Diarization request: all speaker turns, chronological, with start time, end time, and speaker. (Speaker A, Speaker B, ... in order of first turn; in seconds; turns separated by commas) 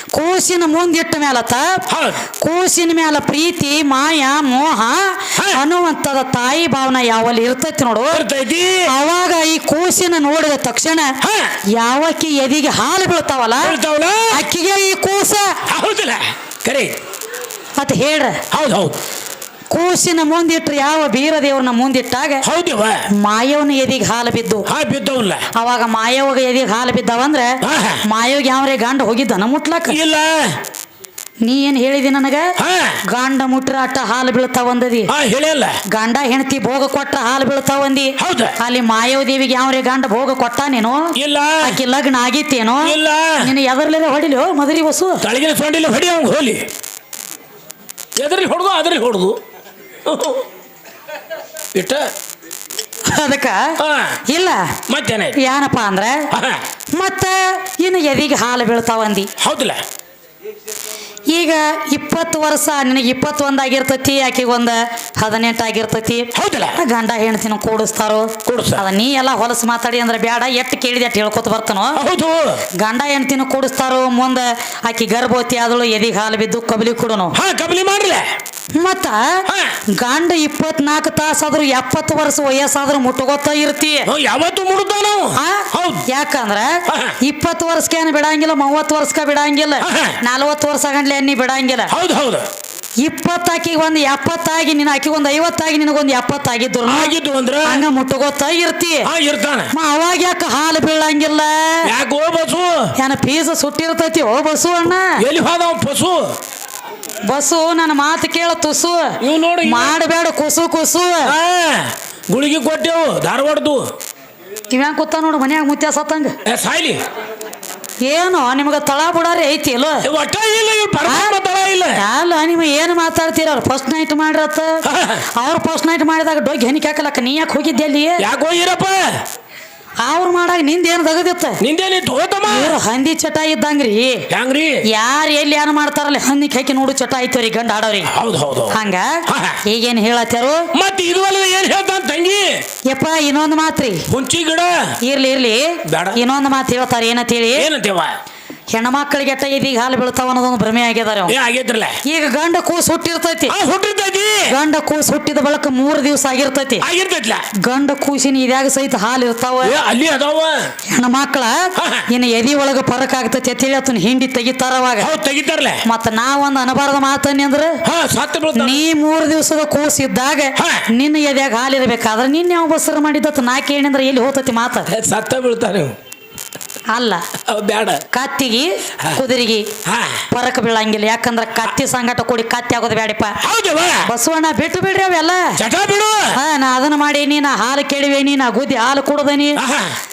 Speaker A: 0.1-1.8, Speaker B: 1.9-2.2, Speaker A: 2.4-8.2, Speaker B: 5.3-5.6, Speaker B: 8.1-8.9, Speaker A: 8.9-11.1, Speaker B: 11.2-11.6, Speaker A: 11.7-13.8, Speaker B: 13.6-14.4, Speaker A: 14.3-15.6, Speaker B: 15.7-17.0, Speaker A: 17.8-18.4, Speaker B: 18.5-18.9, Speaker A: 19.7-22.4, Speaker B: 22.4-23.1, Speaker A: 23.2-24.6, Speaker B: 24.6-25.4, Speaker A: 25.5-30.0, Speaker B: 27.6-28.0, Speaker B: 29.9-30.6, Speaker A: 31.4-32.5, Speaker B: 32.6-33.0, Speaker A: 33.1-35.1, Speaker B: 35.1-35.8, Speaker A: 35.9-45.2, Speaker B: 38.2-38.5, Speaker B: 41.1-41.7, Speaker B: 42.8-43.5, Speaker B: 45.2-46.6, Speaker B: 48.2-49.4, Speaker B: 50.0-50.4, Speaker B: 51.7-52.1, Speaker A: 53.0-53.6, Speaker B: 53.8-54.2, Speaker A: 54.3-54.8, Speaker B: 54.9-55.4, Speaker A: 55.4-56.2, Speaker B: 56.3-56.6, Speaker A: 56.9-59.3, Speaker B: 59.4-59.8, Speaker A: 61.3-72.0, Speaker B: 66.3-66.8, Speaker B: 68.5-68.8, Speaker B: 72.0-72.6, Speaker A: 72.8-77.3, Speaker B: 77.3-78.2, Speaker A: 78.8-79.4, Speaker B: 79.5-79.8, Speaker A: 80.0-84.1, Speaker B: 84.0-86.0, Speaker A: 85.4-91.9, Speaker B: 86.9-87.2, Speaker B: 89.8-90.2, Speaker B: 91.9-92.5, Speaker A: 93.0-99.1, Speaker B: 96.9-97.8, Speaker B: 99.0-99.7, Speaker A: 99.7-101.9, Speaker B: 101.8-102.9, Speaker A: 103.0-105.1, Speaker B: 105.2-106.3, Speaker A: 107.2-109.1, Speaker B: 109.2-109.9, Speaker A: 109.6-111.3, Speaker B: 111.2-113.9, Speaker A: 114.7-116.4, Speaker B: 116.4-117.0, Speaker A: 118.0-120.0, Speaker B: 120.0-122.0, Speaker A: 121.0-121.3, Speaker A: 122.0-124.8, Speaker B: 124.8-125.2, Speaker A: 125.3-128.2, Speaker B: 128.2-129.2, Speaker A: 130.0-131.6, Speaker B: 131.6-132.8, Speaker A: 132.4-134.2, Speaker B: 134.3-134.8, Speaker A: 134.9-138.1, Speaker B: 138.1-139.6, Speaker A: 138.7-140.7, Speaker B: 140.7-142.6, Speaker A: 142.9-144.0, Speaker B: 144.1-144.9, Speaker A: 145.0-147.7, Speaker B: 145.8-146.2, Speaker B: 147.6-148.1, Speaker A: 148.7-151.3, Speaker B: 151.3-152.0, Speaker A: 152.0-153.5, Speaker B: 153.5-154.5, Speaker A: 154.5-156.8, Speaker B: 156.8-157.5, Speaker A: 157.6-159.7, Speaker B: 159.6-160.7, Speaker A: 160.9-165.1, Speaker B: 161.8-162.1, Speaker B: 165.0-165.8, Speaker A: 165.8-167.8, Speaker B: 167.8-168.8, Speaker A: 168.5-174.9, Speaker B: 170.6-170.8, Speaker B: 174.9-175.9, Speaker A: 176.9-177.2, Speaker B: 177.4-178.0, Speaker A: 178.1-179.7, Speaker B: 179.8-180.2, Speaker A: 180.3-183.4, Speaker B: 183.4-184.1, Speaker A: 184.0-185.6, Speaker B: 185.6-186.4, Speaker A: 186.3-189.6, Speaker B: 189.6-189.9